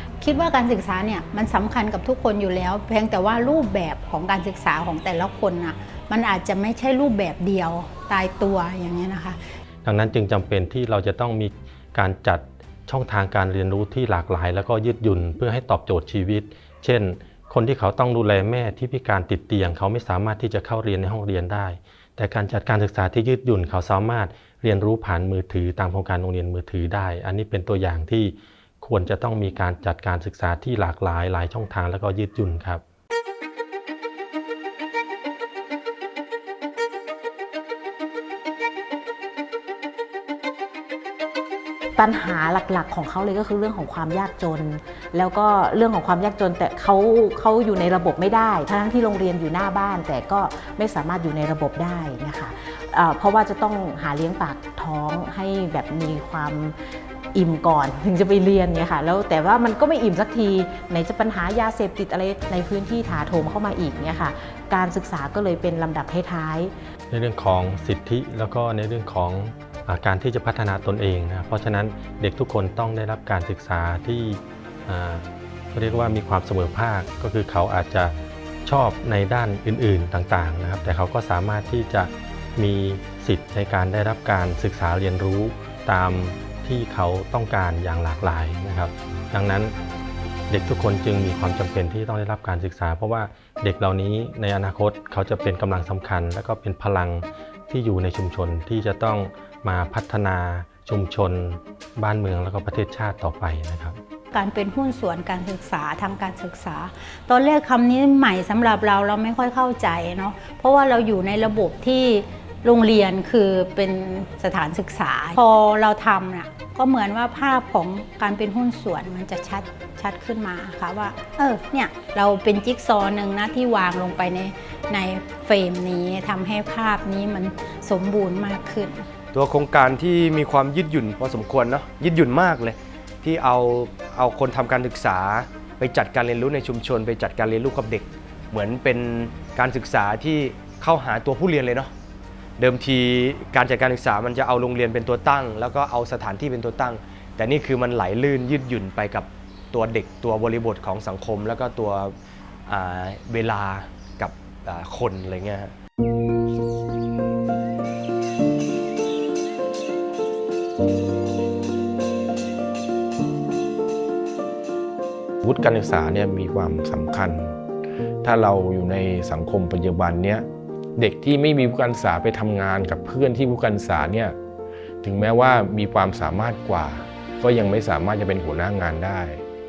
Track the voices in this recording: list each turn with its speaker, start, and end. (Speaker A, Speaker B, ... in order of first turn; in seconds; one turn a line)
Speaker A: 0.2-9.4
Speaker B: 9.8-32.8
Speaker C: 42.0-56.8
Speaker C: 57.4-66.7
Speaker B: 67.1-89.8
Speaker B: 90.5-104.0
Speaker A: 104.3-129.1
Speaker D: 129.3-141.9
Speaker D: 142.6-152.1
Speaker D: 152.7-155.7
Speaker E: 165.4-167.6
Speaker E: 168.2-170.5
Speaker E: 171.0-174.4
Speaker E: 175.0-179.4